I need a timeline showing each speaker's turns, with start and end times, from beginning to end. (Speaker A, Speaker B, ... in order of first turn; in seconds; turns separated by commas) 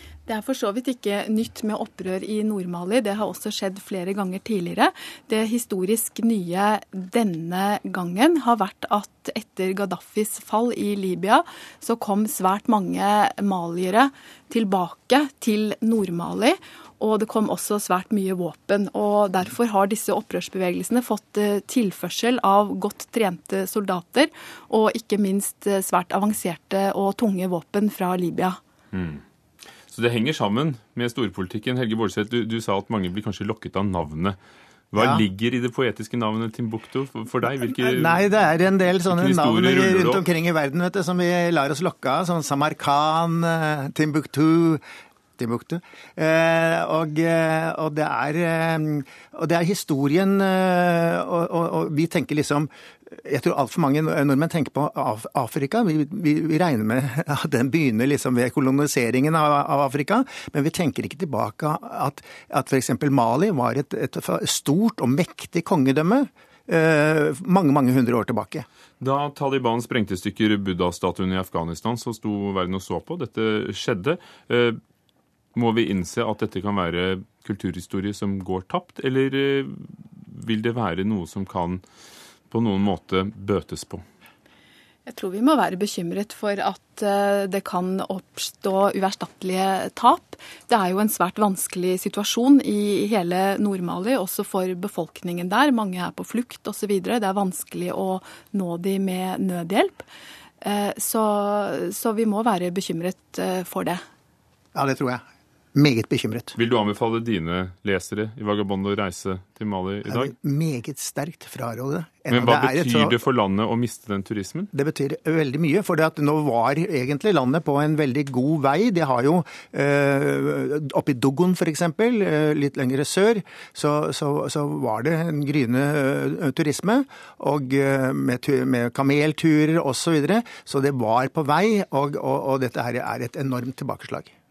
Speaker A: 0.3-28.6, Speaker B: 28.9-29.2, Speaker B: 29.9-34.4, Speaker B: 34.9-38.3, Speaker C: 35.0-35.2, Speaker C: 37.6-44.8, Speaker B: 39.0-40.2, Speaker C: 45.4-68.7, Speaker B: 69.0-74.8, Speaker B: 75.5-81.8, Speaker B: 82.5-84.0, Speaker A: 85.1-100.0, Speaker A: 100.6-104.0, Speaker C: 104.7-105.2, Speaker C: 105.7-106.5, Speaker B: 106.5-110.3, Speaker C: 110.1-113.2, Speaker B: 112.3-114.7, Speaker C: 114.7-134.3